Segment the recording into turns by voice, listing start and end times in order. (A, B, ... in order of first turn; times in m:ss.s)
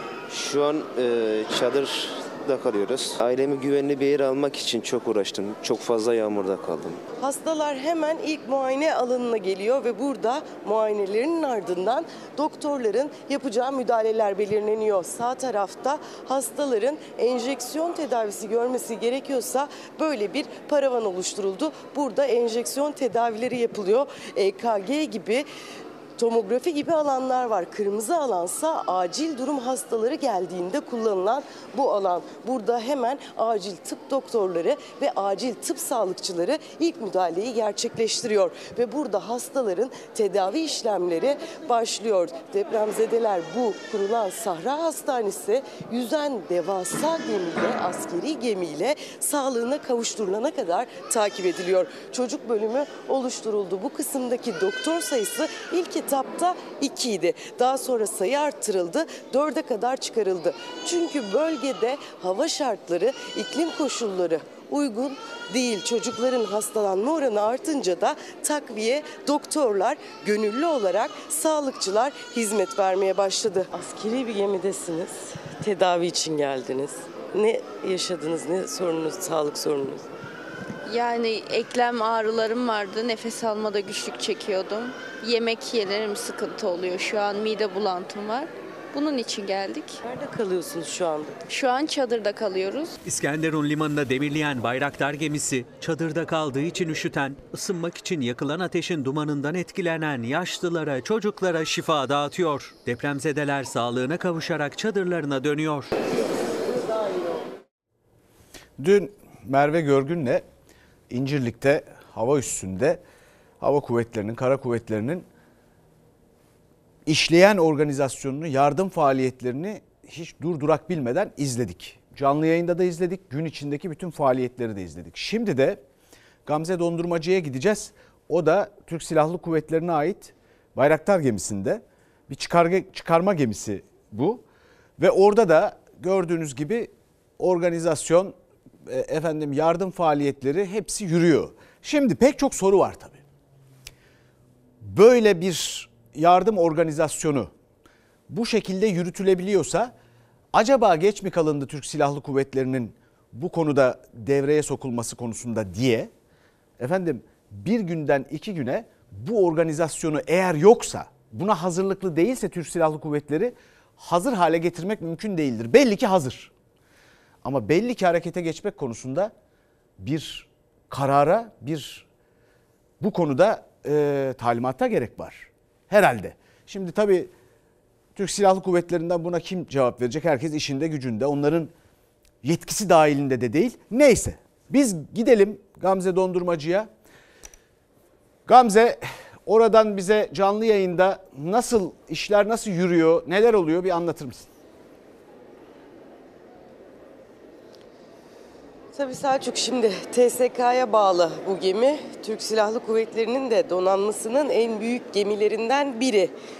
0:00.3-0:07.0 A
0:07.2-0:25.5 B
0:26.2-1:20.1 B
1:20.9-1:30.0 C
1:30.0-1:31.4 B
1:31.5-1:33.0 C
1:33.0-1:45.9 D
1:48.8-1:50.5 E
1:51.1-1:53.0 E
1:53.6-1:55.3 E
1:57.1-2:05.8 E
2:06.5-2:14.4 E
2:15.0-2:23.2 E
2:24.8-2:27.5 E
2:28.3-2:29.9 E
2:30.5-2:36.1 E
2:36.8-2:46.5 E
2:47.4-2:49.3 E
2:50.0-2:52.1 E
2:53.0-2:57.3 E
2:58.2-3:01.7 E
3:02.4-3:06.9 E
3:08.5-3:14.5 E
3:18.9-3:26.3 B